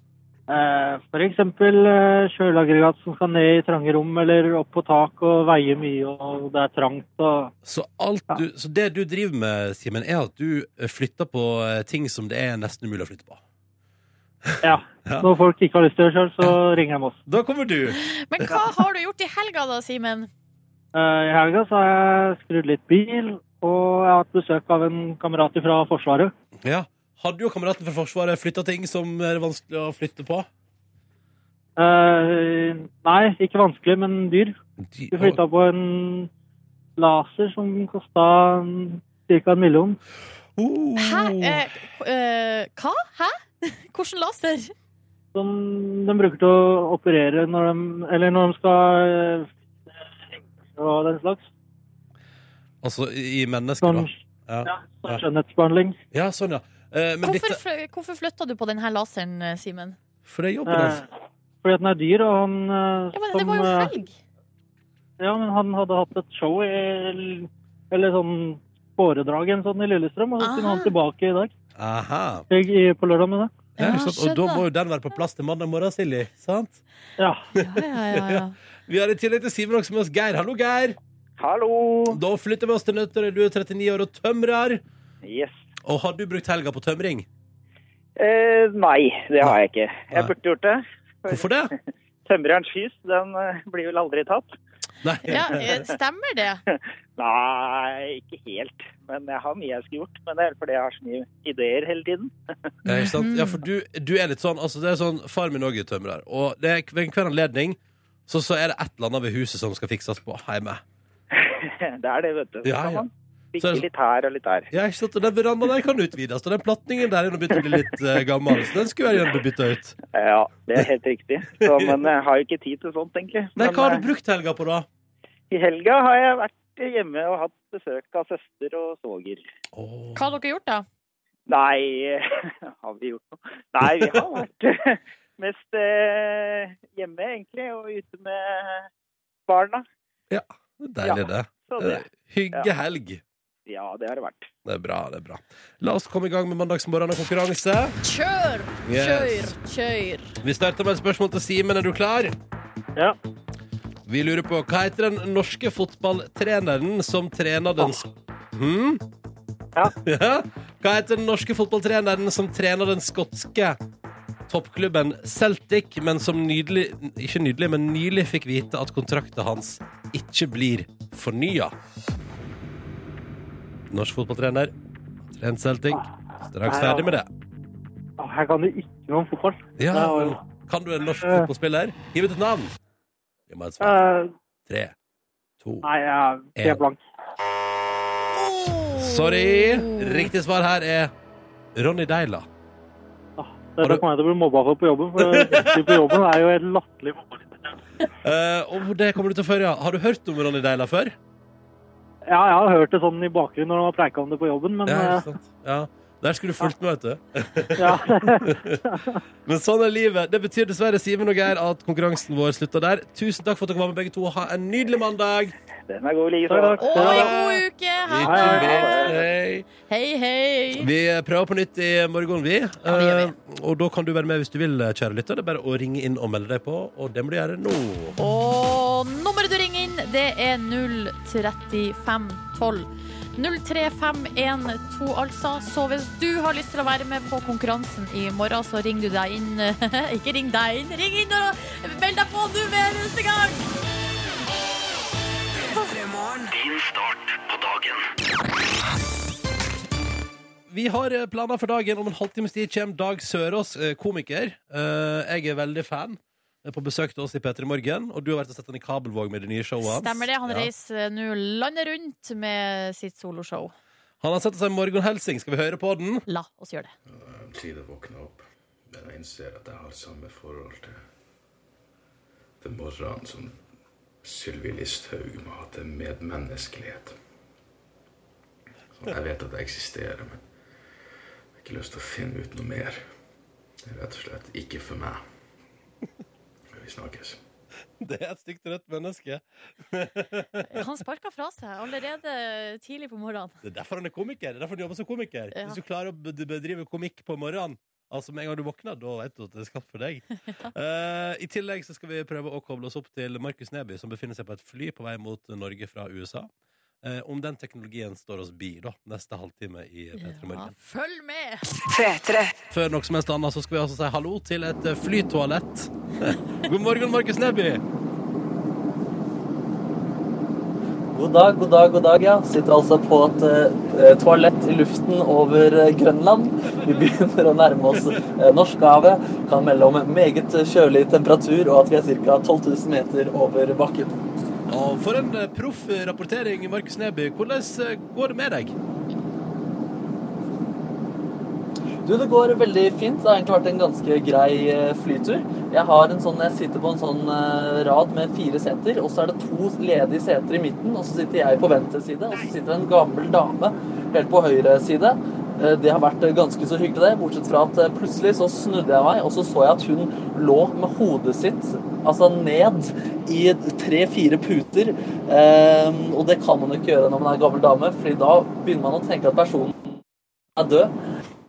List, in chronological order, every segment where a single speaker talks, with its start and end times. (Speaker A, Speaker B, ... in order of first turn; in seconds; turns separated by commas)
Speaker A: 0.5-7.5, Speaker B: 7.7-13.4, Speaker B: 14.4-15.3, Speaker A: 14.6-17.2, Speaker B: 17.3-18.6, Speaker C: 18.0-20.3, Speaker A: 20.9-26.3, Speaker B: 26.6-30.5, Speaker A: 31.8-34.5, Speaker B: 34.9-35.4, Speaker A: 35.1-36.3, Speaker A: 37.0-40.0, Speaker B: 40.6-41.7, Speaker C: 41.0-44.7, Speaker A: 45.3-49.5, Speaker A: 50.7-51.5, Speaker B: 52.8-55.2, Speaker A: 53.8-54.1, Speaker A: 54.6-56.0, Speaker B: 56.1-57.6, Speaker C: 57.2-60.0, Speaker B: 60.3-61.0, Speaker A: 60.7-61.1, Speaker A: 61.6-63.9, Speaker C: 63.1-64.1, Speaker A: 65.2-71.5, Speaker C: 70.4-70.9, Speaker B: 71.8-72.5, Speaker A: 72.5-73.5, Speaker C: 73.8-74.6, Speaker B: 73.8-76.8, Speaker A: 77.2-77.4, Speaker B: 77.5-81.0, Speaker C: 77.6-78.5, Speaker D: 81.4-82.2, Speaker B: 82.1-84.8, Speaker D: 85.2-85.6, Speaker B: 85.8-87.3, Speaker D: 88.2-91.5, Speaker B: 91.3-91.7, Speaker D: 92.2-94.5, Speaker B: 95.0-95.8, Speaker C: 95.2-96.6, Speaker D: 97.2-102.3, Speaker B: 102.8-110.8, Speaker C: 102.9-103.6, Speaker D: 111.3-114.7, Speaker B: 112.6-113.0, Speaker B: 113.6-113.9, Speaker B: 114.7-120.0, Speaker D: 120.1-124.1, Speaker B: 121.7-122.0, Speaker B: 123.6-124.9, Speaker D: 125.5-129.4, Speaker B: 129.8-130.3, Speaker C: 130.2-130.9, Speaker D: 131.5-138.9, Speaker D: 139.5-139.8, Speaker B: 140.3-143.2, Speaker D: 141.0-142.7, Speaker D: 143.7-144.5, Speaker B: 144.7-148.0, Speaker C: 148.0-150.3, Speaker B: 148.8-149.5, Speaker B: 150.4-152.3, Speaker B: 154.1-159.0, Speaker B: 160.0-163.8, Speaker B: 164.5-171.7, Speaker B: 173.9-174.7, Speaker B: 175.4-177.3, Speaker A: 176.6-177.1, Speaker A: 178.2-180.4, Speaker B: 179.8-182.8, Speaker A: 181.2-181.5, Speaker B: 183.5-184.0, Speaker A: 183.8-184.3, Speaker B: 184.7-184.9, Speaker B: 185.6-185.9, Speaker A: 185.8-187.0, Speaker B: 186.6-186.9, Speaker C: 188.4-190.3, Speaker B: 188.9-191.1, Speaker B: 191.8-192.5, Speaker A: 193.4-197.7, Speaker B: 195.2-196.0, Speaker B: 198.2-201.2, Speaker A: 202.3-205.3, Speaker B: 204.8-208.8, Speaker A: 207.8-209.2, Speaker B: 209.5-215.5, Speaker D: 215.9-217.1, Speaker A: 216.5-217.5, Speaker C: 216.8-219.1, Speaker B: 217.0-219.7, Speaker A: 218.3-218.7, Speaker D: 218.6-219.2, Speaker C: 219.8-220.9, Speaker B: 220.8-228.2, Speaker C: 222.9-223.3, Speaker C: 228.2-243.7, Speaker E: 245.7-247.9, Speaker B: 250.7-260.7, Speaker C: 259.8-263.7, Speaker B: 264.2-266.3, Speaker C: 266.3-266.9, Speaker F: 267.1-271.0, Speaker F: 272.6-273.6, Speaker F: 274.2-277.2, Speaker F: 279.0-280.4, Speaker F: 281.6-283.1, Speaker F: 283.8-285.2, Speaker F: 286.7-287.4, Speaker B: 288.0-290.7, Speaker C: 290.7-293.6, Speaker B: 293.6-306.5, Speaker B: 307.0-310.7, Speaker C: 310.2-311.8, Speaker E: 311.9-312.6, Speaker B: 312.7-317.8, Speaker G: 321.1-334.2, Speaker B: 334.7-338.8, Speaker G: 342.1-370.0, Speaker G: 370.6-370.9